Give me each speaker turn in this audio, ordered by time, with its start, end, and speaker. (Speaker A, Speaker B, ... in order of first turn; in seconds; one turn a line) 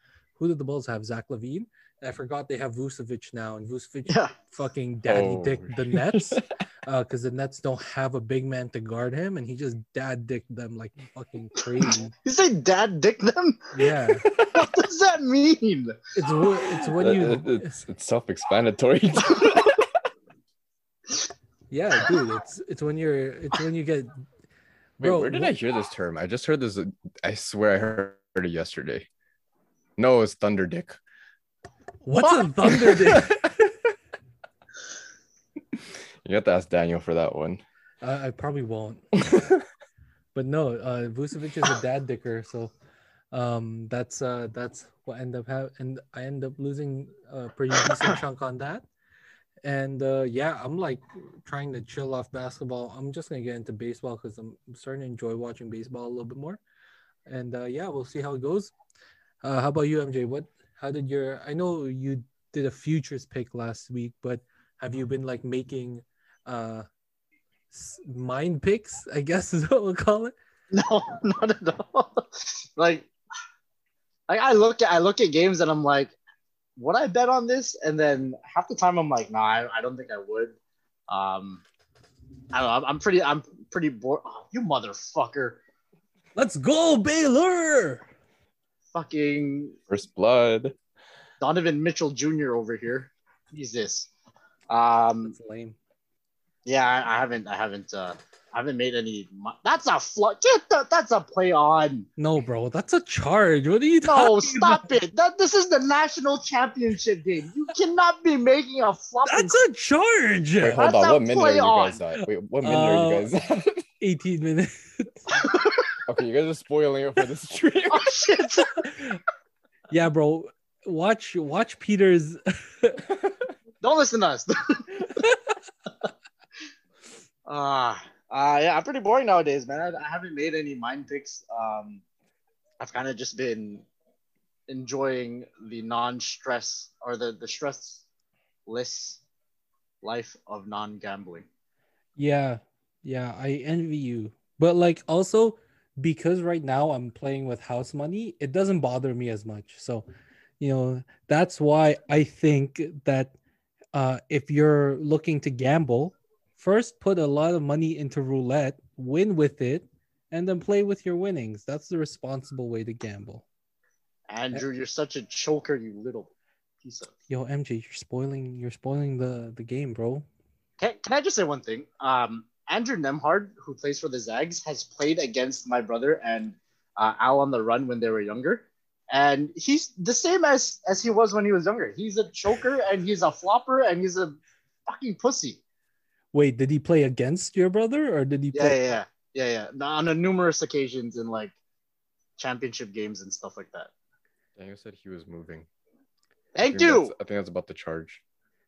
Speaker A: 0.4-12.1
Speaker B: 4.1-4.3
Speaker C: 5.1-6.4
Speaker B: 11.8-13.7
Speaker A: 13.7-14.2
Speaker B: 14.5-16.0
Speaker A: 16.1-17.7
Speaker C: 17.0-20.0
Speaker A: 21.7-24.2
Speaker A: 25.0-25.5
Speaker C: 25.0-29.1
Speaker C: 30.0-31.0
Speaker A: 32.0-33.4
Speaker C: 32.9-33.5
Speaker C: 35.7-37.6
Speaker A: 38.0-39.0
Speaker C: 39.3-39.6
Speaker A: 40.4-42.7
Speaker A: 43.3-48.8
Speaker A: 49.6-56.6
Speaker A: 57.3-58.7
Speaker A: 59.4-66.9
Speaker A: 67.7-70.3
Speaker B: 70.7-73.1
Speaker B: 74.3-76.2
Speaker B: 76.8-80.6
Speaker B: 81.1-81.6
Speaker B: 82.5-85.6
Speaker A: 86.4-88.1
Speaker B: 88.9-89.8
Speaker C: 89.9-90.8
Speaker B: 91.4-94.1
Speaker B: 94.7-95.3
Speaker A: 95.3-95.8
Speaker B: 96.7-102.1
Speaker A: 102.2-104.9
Speaker B: 104.0-109.6
Speaker A: 109.2-110.8
Speaker C: 110.6-113.8
Speaker B: 110.8-112.0
Speaker A: 112.6-113.3
Speaker A: 114.0-115.3
Speaker C: 116.1-118.1
Speaker B: 117.9-118.8
Speaker A: 118.8-119.2
Speaker A: 119.9-123.0
Speaker B: 123.8-125.1
Speaker B: 127.5-132.0
Speaker B: 132.8-133.9
Speaker B: 134.7-138.0
Speaker B: 138.7-139.2
Speaker B: 140.0-141.5
Speaker A: 142.2-150.1
Speaker A: 150.6-153.3
Speaker A: 153.9-163.4
Speaker B: 164.3-167.1
Speaker A: 167.3-170.2
Speaker B: 170.8-185.6
Speaker A: 186.3-188.8
Speaker B: 188.5-191.6
Speaker B: 192.4-193.9
Speaker C: 194.6-195.7
Speaker B: 196.6-197.1
Speaker C: 196.7-198.2